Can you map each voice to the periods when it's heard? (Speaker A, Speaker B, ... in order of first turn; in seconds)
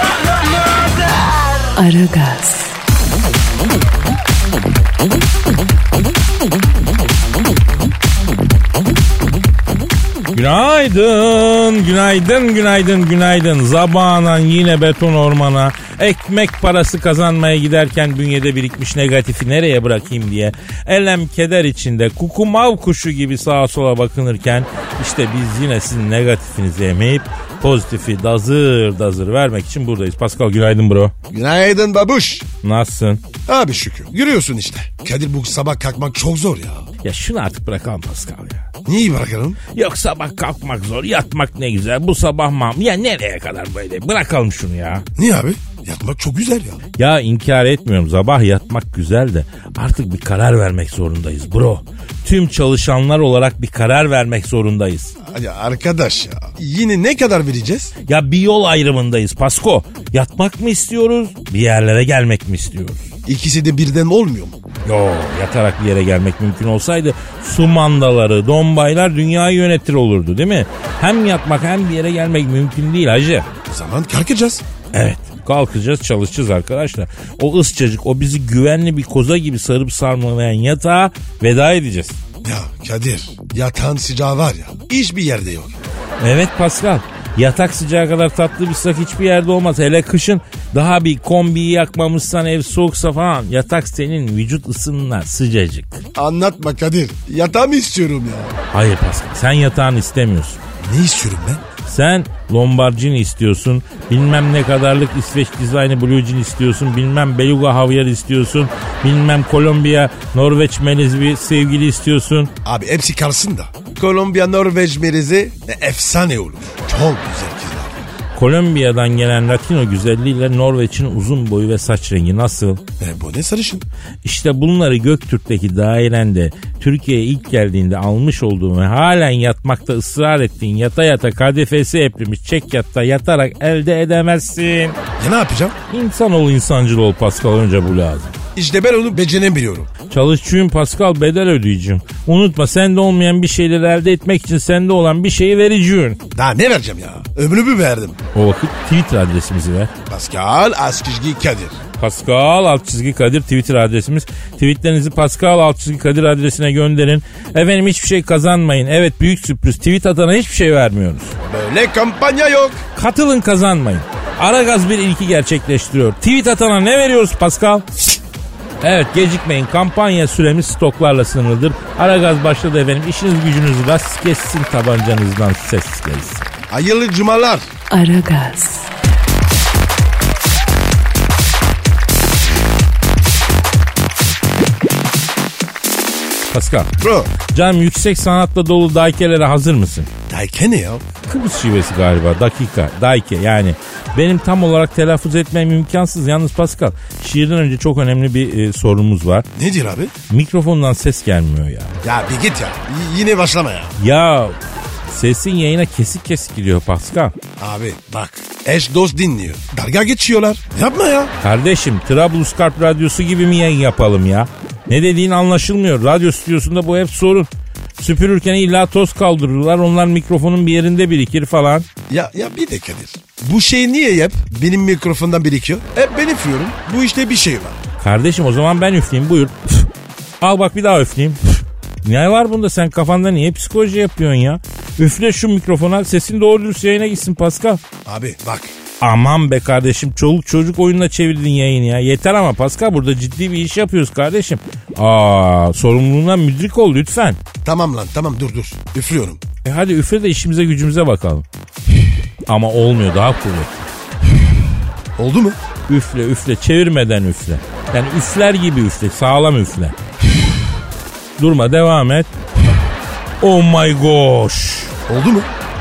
Speaker A: 1.8-2.7, 177.9-178.9
Speaker B: 10.3-31.1, 32.6-33.2, 37.0-38.7, 39.7-45.0, 47.0-55.1, 58.1-63.0, 64.8-73.5, 74.9-82.2, 86.2-96.0, 98.7-100.6, 101.9-112.5, 118.3-122.8, 124.2-135.0, 135.9-138.4, 140.1-146.2, 148.3-149.9, 152.0-161.3, 162.9-167.9, 168.8-176.5, 186.5-186.9, 187.5-190.1, 191.3-199.5, 200.3-201.9, 204.0-204.6, 205.1-207.4, 211.4-221.9, 228.0-237.8, 239.0-247.4, 249.6-251.4, 252.5-253.9, 255.9-260.0, 261.4-262.3, 263.4-264.9
Speaker C: 31.3-32.5, 33.5-36.9, 38.9-39.6, 45.2-46.8, 55.3-57.9, 63.3-64.6, 73.7-74.6, 82.4-85.8, 96.2-98.5, 100.8-101.6, 112.6-118.1, 123.0-123.8, 135.2-135.8, 138.6-139.9, 146.3-148.2, 150.1-151.8, 161.4-162.8, 176.7-177.7, 187.0-187.3, 190.3-191.0, 199.6-200.1, 202.0-204.0, 207.6-211.3, 222.1-227.8, 238.1-238.7, 247.6-249.4, 255.2-255.6, 265.1-265.5